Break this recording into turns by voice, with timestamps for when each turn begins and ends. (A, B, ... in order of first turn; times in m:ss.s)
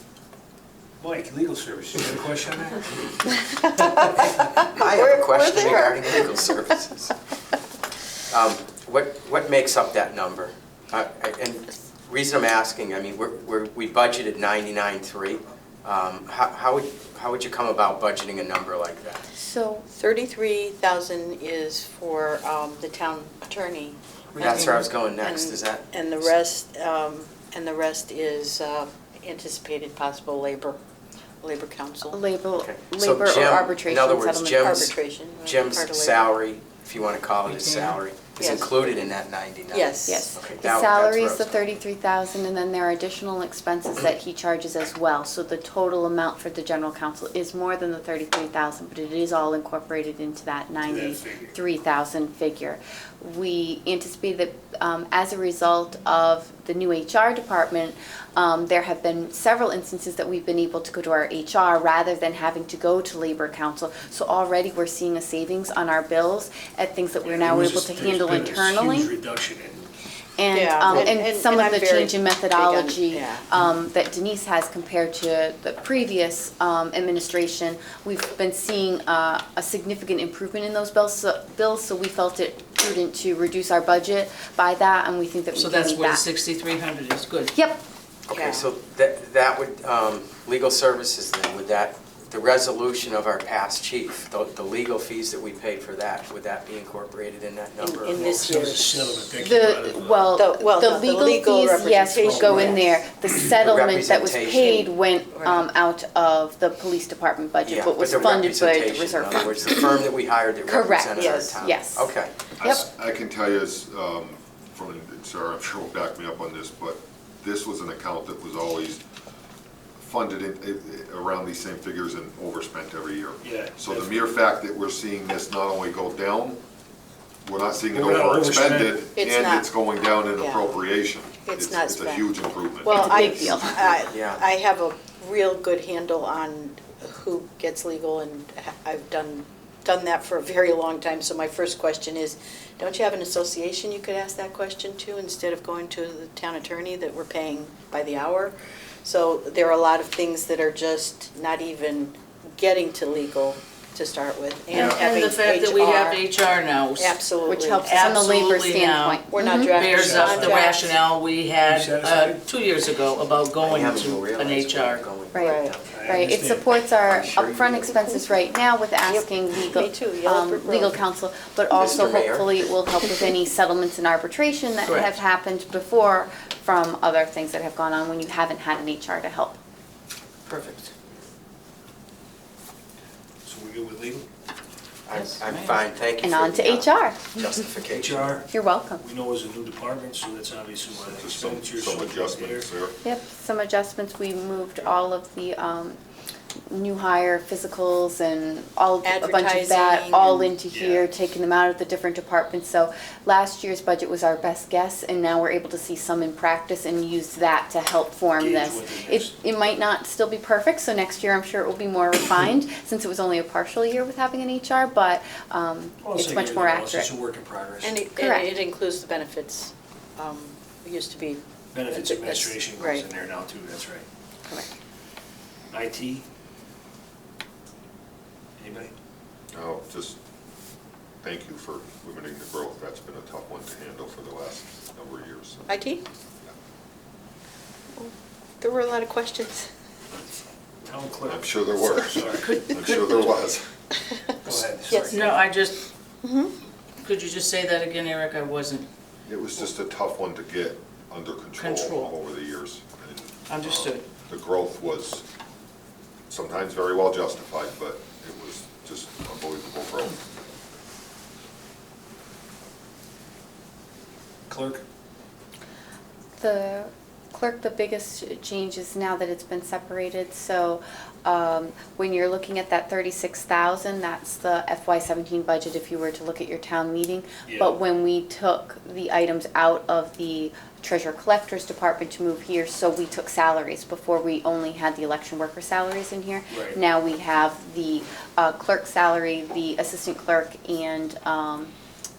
0:01.0-0:03.1 A
0:03.3-0:06.6 B
0:04.5-0:07.1 C
0:08.3-0:19.3 C
0:19.3-0:19.8 D
0:19.9-0:30.8 B
0:24.4-0:24.8 D
0:24.4-0:25.9 C
0:31.4-0:32.2 B
0:32.1-0:35.0 D
0:32.5-0:41.8 C
0:34.6-0:36.3 B
0:37.4-0:38.0 E
0:38.4-0:38.9 B
0:39.7-0:40.4 B
0:40.0-1:09.1 D
0:50.8-0:51.6 A
1:07.3-1:09.9 A
1:10.4-1:26.2 D
1:10.5-1:13.5 B
1:25.5-1:27.5 E
1:27.5-1:27.8 D
1:28.3-1:38.3 C
1:28.3-1:28.7 B
1:37.8-1:39.1 B
1:38.1-1:40.3 A
1:39.4-1:50.1 D
1:40.3-1:42.9 B
1:42.1-1:42.8 A
1:43.5-1:44.9 C
1:44.6-1:45.7 B
1:47.6-1:52.3 C
1:50.7-1:52.8 D
1:51.1-1:51.6 B
1:52.6-1:59.0 F
2:00.0-2:06.6 F
2:03.4-2:04.2 A
2:07.4-2:13.7 F
2:07.9-2:09.0 A
2:09.2-2:10.8 B
2:11.4-2:12.3 B
2:12.8-2:36.2 B
2:12.8-2:13.8 D
2:14.1-2:14.4 C
2:34.7-2:37.2 E
2:37.0-2:38.1 B
2:37.4-2:39.8 D
2:37.8-2:45.1 E
2:39.3-2:41.0 B
2:39.9-2:40.6 A
2:41.6-2:42.4 A
2:43.6-2:45.7 C
2:45.3-2:59.6 D
2:45.3-2:45.8 B
2:45.8-2:46.7 A
2:47.1-2:47.8 C
2:47.8-2:48.2 B
2:49.1-2:51.0 B
2:51.7-2:52.7 C
2:54.8-2:55.1 E
3:00.4-3:00.9 C
3:03.4-3:04.2 A
3:05.1-3:08.4 C
3:05.1-3:05.8 E
3:06.2-3:07.3 D
3:07.9-3:12.7 A
3:08.5-3:09.0 D
3:11.0-3:13.0 F
3:13.0-3:16.0 D
3:16.7-3:37.1 D
3:19.0-3:20.6 B
3:20.7-3:21.1 A
3:28.4-3:29.3 A
3:36.0-3:38.0 A
3:37.8-3:43.1 B
3:38.1-3:38.6 D
3:41.7-3:44.0 A
3:45.7-3:46.2 A
3:48.6-3:48.9 A
3:49.5-3:50.2 F
3:51.2-3:55.7 F
3:55.7-3:56.0 B
3:57.9-3:59.7 B
4:00.8-4:02.5 A
4:01.2-4:03.7 F
4:02.4-4:03.3 E
4:04.4-4:05.4 A
4:04.9-4:05.2 B
4:05.1-4:05.8 E
4:06.2-4:06.5 B
4:07.0-4:08.9 E
4:09.3-4:15.2 F
4:11.6-4:12.1 E
4:13.5-4:14.0 E
4:16.3-4:20.2 F
4:24.5-4:24.8 A
4:26.4-4:51.7 D
4:37.4-4:37.8 A
4:46.5-4:46.8 A